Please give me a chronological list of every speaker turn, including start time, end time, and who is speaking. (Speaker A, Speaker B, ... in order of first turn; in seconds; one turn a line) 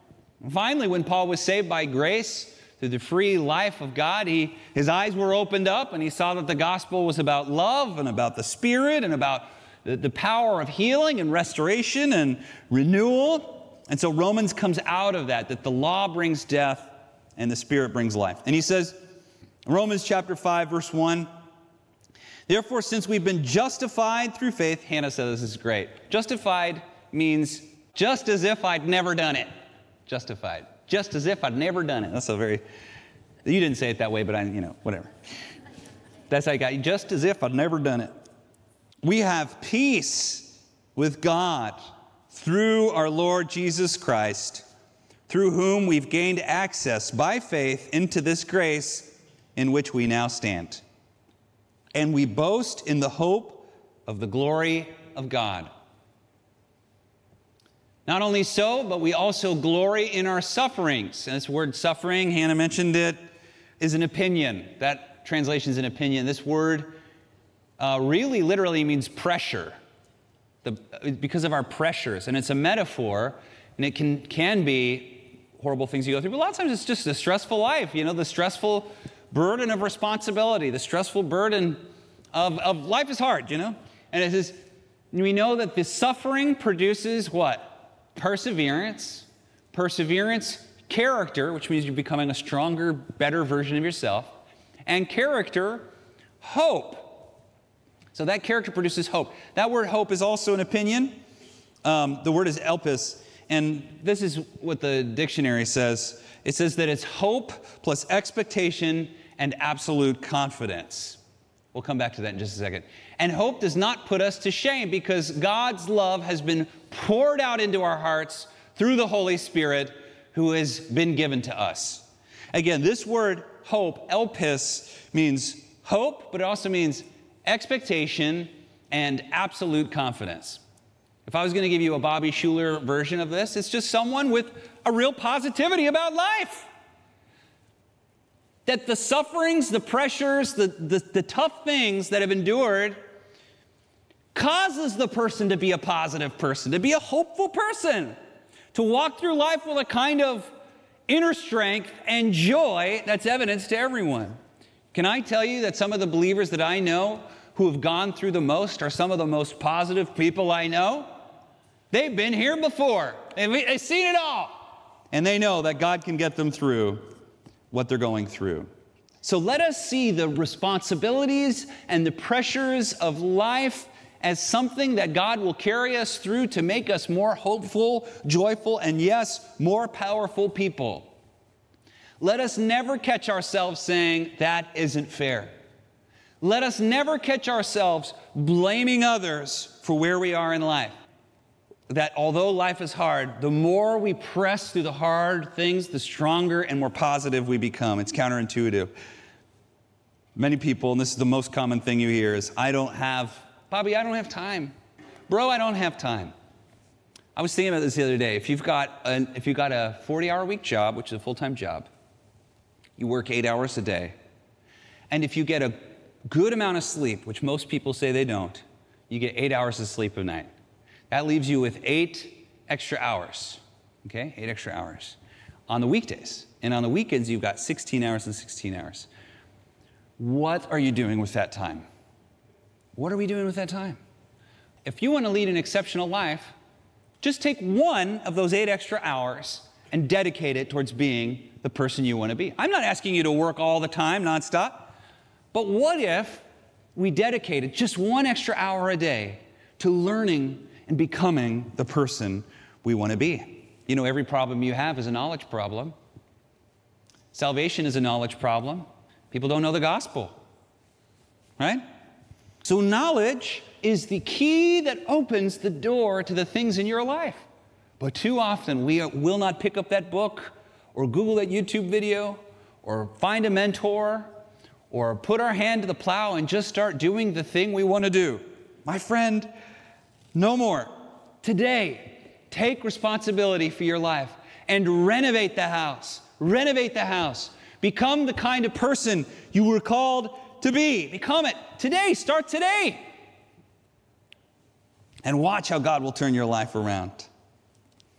Speaker A: 0.4-19.0
Speaker A: 19.6-21.3
Speaker A: 22.5-29.5
Speaker A: 30.1-32.6
Speaker A: 33.4-35.1
Speaker A: 36.3-38.1
Speaker A: 39.0-44.7
Speaker A: 45.3-50.8
Speaker A: 51.9-55.7
Speaker A: 58.0-63.2
Speaker A: 63.8-66.9
Speaker A: 67.8-69.8
Speaker A: 70.6-94.3
Speaker A: 94.8-95.9
Speaker A: 96.4-97.3
Speaker A: 98.1-101.2
Speaker A: 101.8-111.2
Speaker A: 111.7-130.6
Speaker A: 131.2-136.7
Speaker A: 138.7-143.0
Speaker A: 144.3-148.1
Speaker A: 148.7-150.5
Speaker A: 151.1-154.4
Speaker A: 154.9-161.1
Speaker A: 161.9-167.1
Speaker A: 167.7-168.7
Speaker A: 169.2-181.1
Speaker A: 182.2-185.5
Speaker A: 186.4-190.9
Speaker A: 191.9-198.9
Speaker A: 200.3-204.7
Speaker A: 205.3-206.3
Speaker A: 207.3-211.9
Speaker A: 213.0-214.1
Speaker A: 215.1-220.5
Speaker A: 221.1-225.2
Speaker A: 225.7-229.1
Speaker A: 230.2-231.8
Speaker A: 232.9-234.0
Speaker A: 234.8-236.5
Speaker A: 237.2-244.9
Speaker A: 245.5-246.4
Speaker A: 246.9-255.9
Speaker A: 257.3-260.4
Speaker A: 262.6-267.4
Speaker A: 268.0-274.3
Speaker A: 274.9-279.5
Speaker A: 280.3-280.9
Speaker A: 281.4-293.1
Speaker A: 295.2-297.3